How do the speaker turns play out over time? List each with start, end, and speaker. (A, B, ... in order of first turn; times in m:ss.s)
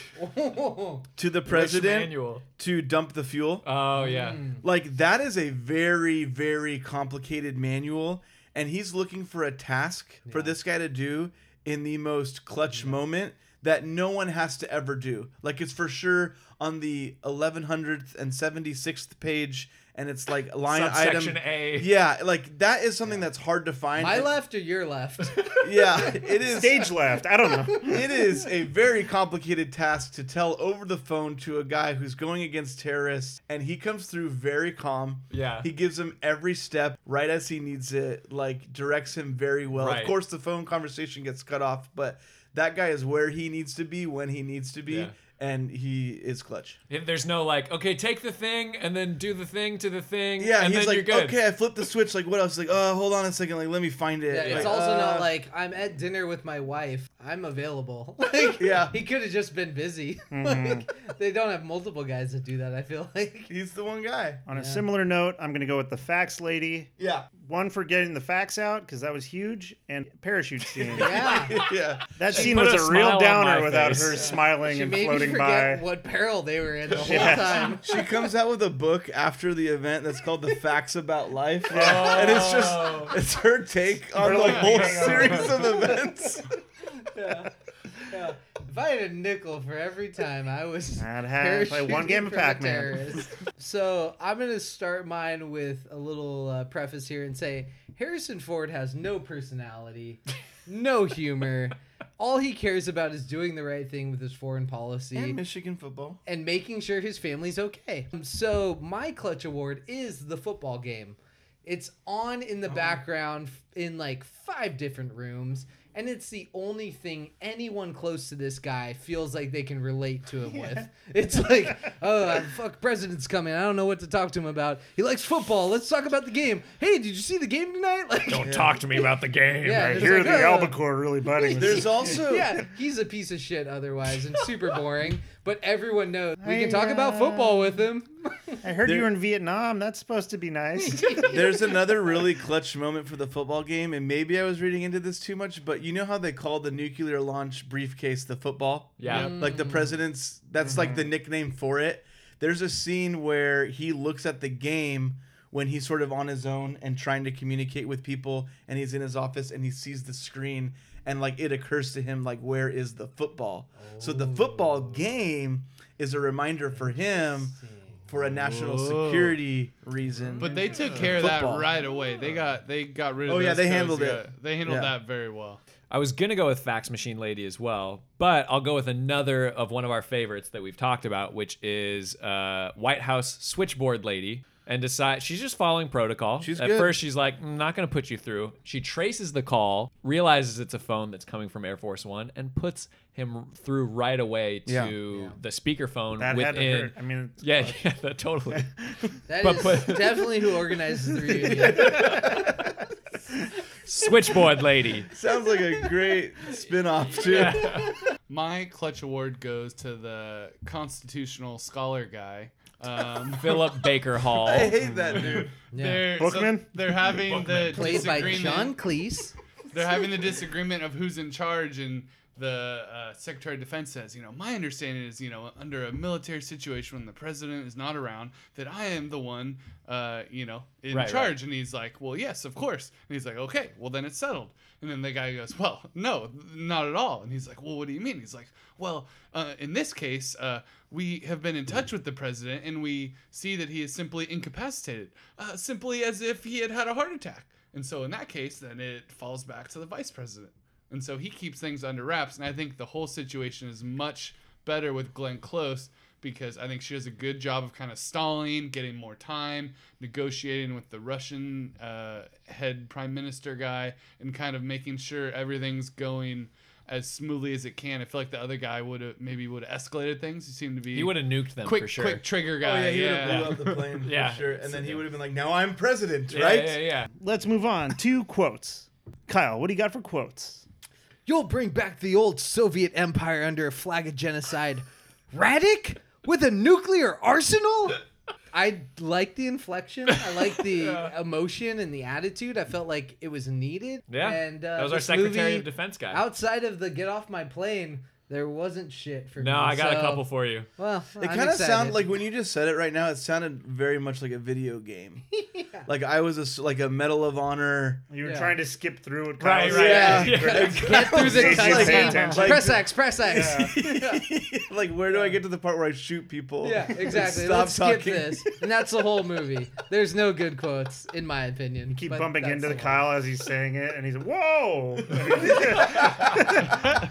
0:00.2-0:01.1 A
0:01.2-0:03.7 B
0:01.5-0:02.4 C
0:03.6-0:04.4 C
0:04.0-0:04.6 A
0:04.6-0:24.3 B
0:10.3-0:10.6 A
0:20.7-0:22.0 C
0:24.0-0:26.9 A
0:25.6-0:26.9 B
0:26.5-0:28.0 D
0:27.8-0:46.8 B
0:35.3-0:35.7 C
0:39.8-0:40.2 C
0:44.9-0:45.1 C
0:46.9-0:51.4 C
0:50.4-0:55.3 B
0:54.3-1:03.5 A
0:54.4-0:54.8 C
0:58.6-0:59.0 B
1:00.3-1:00.9 D
1:03.5-1:04.4 B
1:04.5-1:11.1 D
1:04.5-1:04.8 A
1:07.0-1:07.3 B
1:11.0-1:11.6 A
1:11.0-1:12.1 B
1:12.2-1:15.8 D
1:12.3-1:14.4 C
1:14.5-1:18.0 A
1:17.0-1:17.8 D
1:17.1-1:26.5 B
1:21.7-1:22.3 D
1:21.7-1:23.1 C
1:24.2-1:25.8 D
1:24.3-1:24.8 E
1:27.1-1:27.5 A
1:28.0-1:45.4 A
1:31.0-1:33.0 D
1:45.1-1:46.2 B
1:46.3-2:09.1 A
1:52.7-1:53.0 B
2:08.3-2:10.4 C
2:08.4-2:08.8 B
2:09.6-2:10.8 A
2:09.8-2:12.2 D
2:11.4-2:18.6 A
2:11.6-2:12.6 B
2:16.4-2:17.8 D
2:18.6-2:21.3 D
2:18.8-2:19.1 B
2:20.8-2:22.0 A
2:21.3-2:47.6 B
2:29.0-2:29.4 C
2:29.1-2:30.0 A
2:30.6-2:31.0 D
2:43.8-2:45.1 A
2:46.7-2:48.1 A
2:48.1-2:51.7 B
2:48.3-2:49.4 E
2:50.4-2:50.8 A
2:50.4-2:55.6 E
2:53.2-2:55.0 B
2:55.9-3:18.7 C
3:06.4-3:07.0 B
3:14.7-3:14.9 B
3:15.1-3:15.4 A
3:16.2-3:17.8 D
3:19.3-3:22.6 A
3:19.4-3:20.5 C
3:21.4-3:22.5 C
3:23.9-3:25.1 C
3:25.1-3:27.9 B
3:27.1-3:28.0 C
3:28.3-3:33.7 E
3:33.4-3:34.8 C
3:34.4-3:35.5 B
3:35.2-3:38.9 E
3:35.7-3:36.3 A
3:36.2-3:37.1 D
3:37.2-3:38.5 C
3:37.7-3:39.3 A
3:39.7-4:33.6 E
3:50.9-3:51.3 C
4:30.9-4:32.3 C
4:32.6-4:36.8 B
4:33.2-4:35.0 C
4:36.3-4:37.1 C
4:37.2-4:40.6 D
4:41.3-5:02.1 A
4:50.3-4:51.1 C
4:54.1-4:56.2 C
4:59.4-5:00.7 C
5:01.2-5:05.2 B
5:05.6-5:05.8 A
5:05.8-5:08.1 B
5:08.1-5:12.7 D
5:08.2-5:08.6 A
5:09.4-5:11.5 C
5:09.6-5:18.6 B
5:09.9-5:14.3 A
5:13.3-5:13.7 D
5:15.1-5:15.4 A
5:16.6-5:23.1 A
5:21.9-5:26.6 D
5:25.3-5:26.5 B